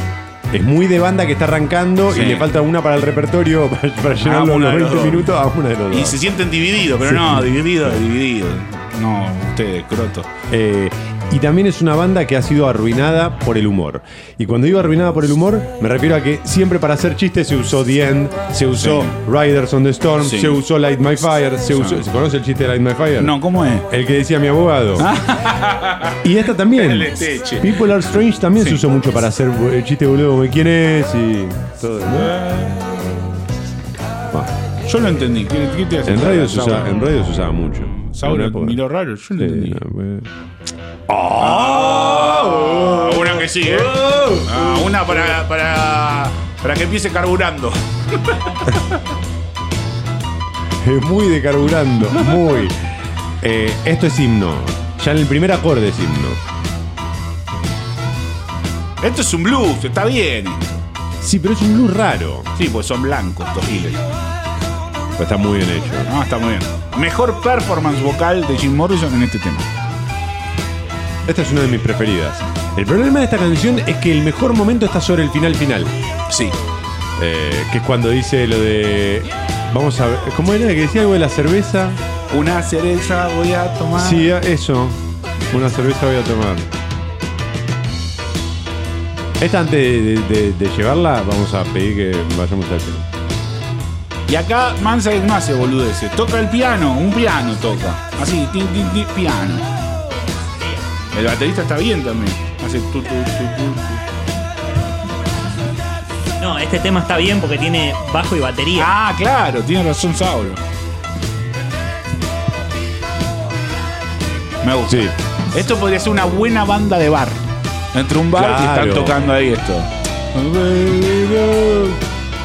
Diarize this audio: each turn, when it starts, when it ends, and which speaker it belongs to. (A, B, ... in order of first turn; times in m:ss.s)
0:00.5-0:06.2 A
0:02.1-0:02.5 B
0:04.2-0:05.3 B
0:05.9-0:10.3 B
0:07.0-0:07.5 A
0:10.5-0:23.4 A
0:18.8-0:19.2 B
0:20.2-0:20.6 B
0:21.7-0:22.0 B
0:23.2-0:23.9 B
0:23.9-0:25.1 A
0:25.0-0:28.0 B
0:26.2-0:32.4 A
0:28.6-0:28.8 B
0:32.1-0:33.2 B
0:34.8-0:37.1 B
0:36.0-0:38.8 A
0:37.9-0:39.8 B
0:39.4-0:40.3 A
0:41.1-0:45.4 A
0:41.4-0:48.8 B
0:50.8-0:52.8 A
0:53.4-0:56.4 A
0:59.0-1:00.8 B
1:01.2-1:02.5 A
1:02.6-1:04.0 B
1:05.2-1:06.1 A
1:06.0-1:09.7 B
1:11.2-1:15.9 A
1:16.3-1:16.5 B
1:17.2-1:22.0 A
1:22.3-1:24.3 B
1:23.9-1:26.7 A
1:29.4-1:33.0 A
1:34.3-1:39.7 B
1:41.1-1:44.0 B
1:46.4-1:48.9 C
1:48.8-1:50.6 B
1:54.6-1:57.4 B
1:57.9-2:02.0 B
1:58.3-1:59.4 A